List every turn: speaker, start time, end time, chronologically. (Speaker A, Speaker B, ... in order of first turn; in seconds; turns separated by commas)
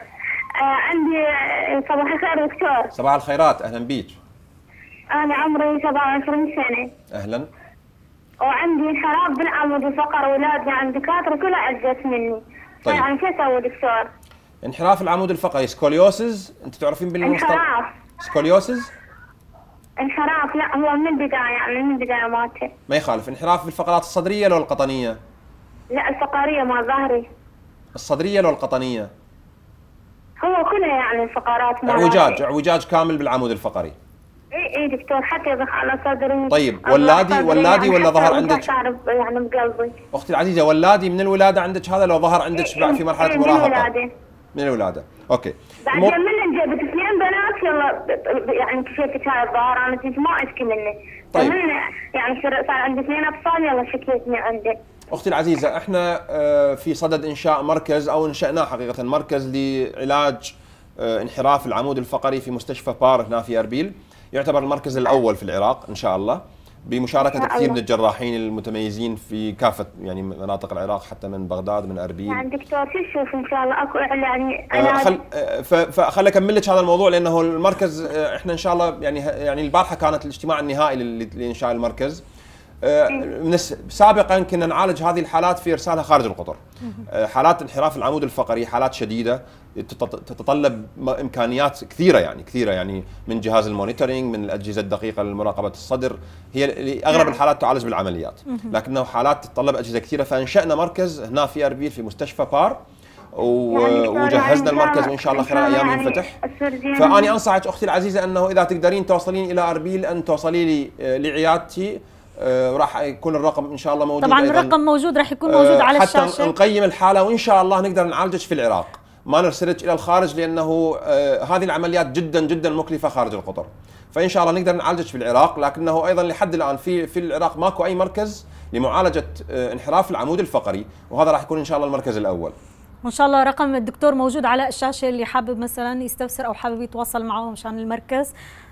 Speaker A: 0.6-2.9, Speaker B: 2.9-4.2, Speaker A: 5.1-6.9, Speaker B: 7.1-7.5, Speaker A: 8.4-14.1, Speaker B: 14.6-17.6, Speaker A: 17.2-17.9, Speaker B: 18.2-18.9, Speaker A: 20.0-22.7, Speaker B: 22.9-25.2, Speaker A: 25.9-27.3, Speaker B: 27.9-29.1, Speaker A: 30.4-32.4, Speaker B: 31.9-33.9, Speaker A: 34.5-40.0, Speaker B: 36.5-38.7, Speaker B: 40.1-43.9, Speaker A: 42.6-44.1, Speaker B: 44.5-46.2, Speaker A: 45.9-54.8, Speaker B: 51.3-51.6, Speaker B: 55.1-72.5, Speaker A: 67.3-67.8, Speaker A: 72.3-75.2, Speaker B: 74.7-82.2, Speaker B: 82.8-102.8, Speaker B: 103.3-106.3, Speaker A: 103.7-107.3, Speaker B: 106.9-114.8, Speaker C: 114.2-116.5, Speaker B: 115.5-132.5, Speaker C: 133.0-138.3